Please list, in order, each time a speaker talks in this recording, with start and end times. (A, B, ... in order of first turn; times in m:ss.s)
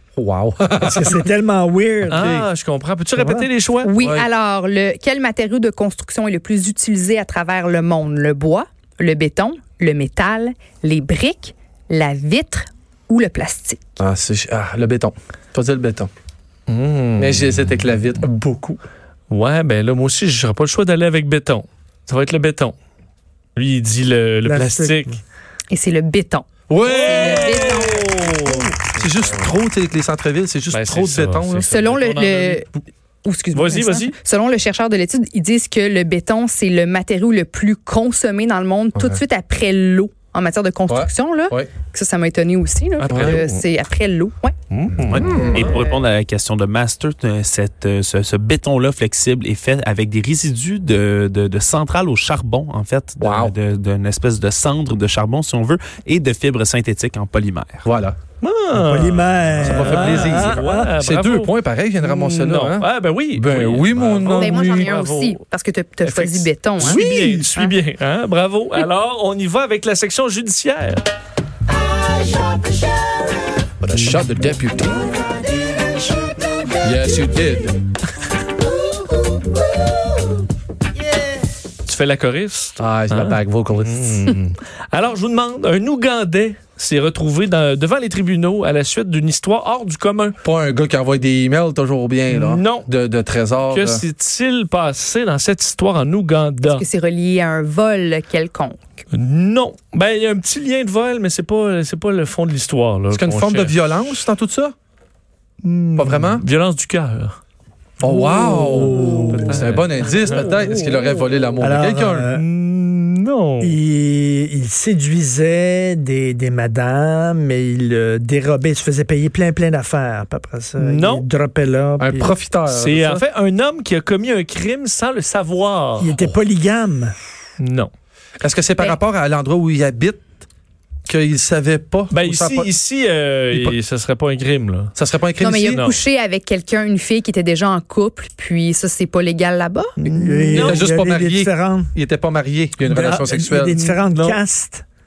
0:00.2-0:01.3 A
0:00.8-0:02.3 B
0:02.1-0:02.5 A
0:02.1-0:03.9 C
0:03.2-0:03.5 B
0:03.8-0:14.0 D
0:04.0-0:04.3 A
0:14.0-0:16.1 A
0:16.7-0:17.5 C
0:17.2-0:18.8 A
0:19.3-0:22.8 C
0:23.6-0:25.2 C
0:24.4-0:25.1 B
0:25.7-0:28.8 D
0:26.7-0:27.9 A
0:26.8-0:28.9 C
0:28.9-0:31.7 A
0:30.7-0:32.6 C
0:31.7-0:32.7 D
0:33.2-0:44.5 D
0:33.5-0:34.1 C
0:40.9-0:41.7 A
0:43.0-0:43.6 C
0:43.1-0:43.4 A
0:44.7-0:45.8 C
0:45.0-0:45.6 A
0:45.1-0:57.9 E
0:45.2-0:46.0 D
0:53.2-0:53.6 A
0:57.8-0:58.2 A
0:58.4-1:05.4 C
0:58.7-1:00.9 B
0:59.6-1:04.9 A
1:04.4-1:07.0 D
1:06.0-1:11.0 C
1:06.8-1:07.5 B
1:13.8-1:15.1 A
1:16.8-1:17.8 A
1:21.8-1:30.4 C
1:22.8-1:24.3 A
1:30.4-1:34.0 A
1:32.3-1:32.9 C
1:33.7-1:36.8 C
1:36.7-1:38.8 D
1:39.1-1:43.8 C
1:43.1-1:44.7 A
1:45.6-1:47.4 C
1:46.0-1:46.4 A
1:48.0-1:52.3 A
1:48.0-1:49.6 B
1:49.0-1:51.4 C
1:51.6-1:52.4 B
1:52.3-1:53.8 C
1:53.6-2:02.4 B
2:00.8-2:01.2 C
2:02.0-2:03.2 A
2:02.6-2:06.2 C
2:06.0-2:07.2 B
2:07.6-2:07.9 C
2:08.4-2:10.4 A
2:11.1-2:12.7 A
2:12.1-2:14.9 C
2:15.0-2:15.9 A
2:15.4-2:20.0 D
2:15.6-2:15.9 C
2:20.0-2:20.9 C
2:20.0-2:24.0 A
2:20.1-2:21.9 B
2:22.8-2:24.8 B
2:24.1-2:24.4 C